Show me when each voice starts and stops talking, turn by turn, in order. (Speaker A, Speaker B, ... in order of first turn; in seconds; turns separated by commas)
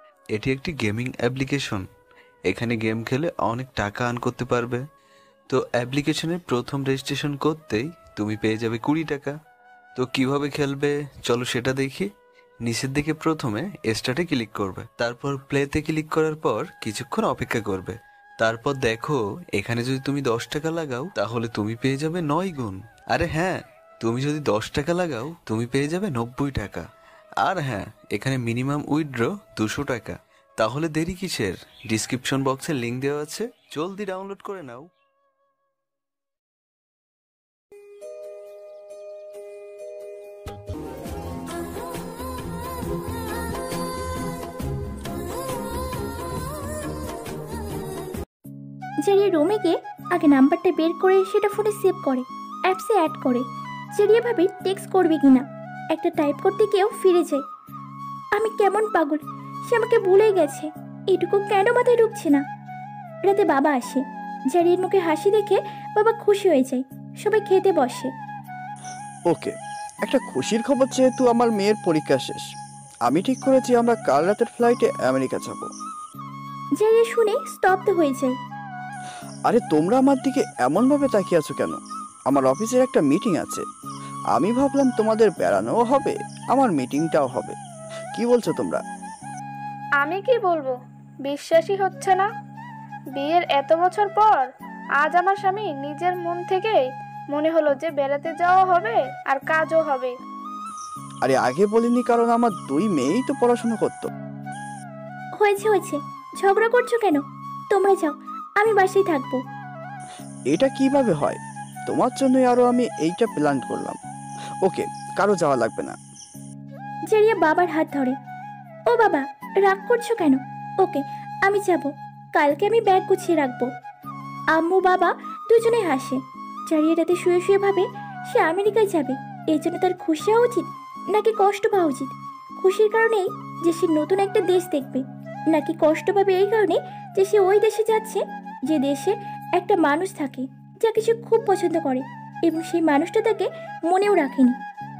Speaker A: 0.3-1.8, Speaker A: 2.5-4.8, Speaker A: 5.5-9.3, Speaker A: 9.9-12.1, Speaker A: 12.6-26.9, Speaker A: 27.4-34.9, Speaker B: 49.0-53.4, Speaker B: 53.9-57.4, Speaker B: 58.4-62.4, Speaker B: 63.2-68.1, Speaker C: 69.3-72.5, Speaker C: 73.0-75.7, Speaker B: 76.8-78.3, Speaker C: 79.5-83.6, Speaker C: 84.3-87.5, Speaker C: 88.1-88.8, Speaker D: 90.0-92.3, Speaker D: 93.2-94.5, Speaker D: 95.0-100.1, Speaker C: 101.2-104.1, Speaker B: 105.4-109.4, Speaker C: 110.5-114.0, Speaker C: 114.6-116.0, Speaker B: 117.1-118.1, Speaker B: 118.9-123.7, Speaker B: 124.5-144.5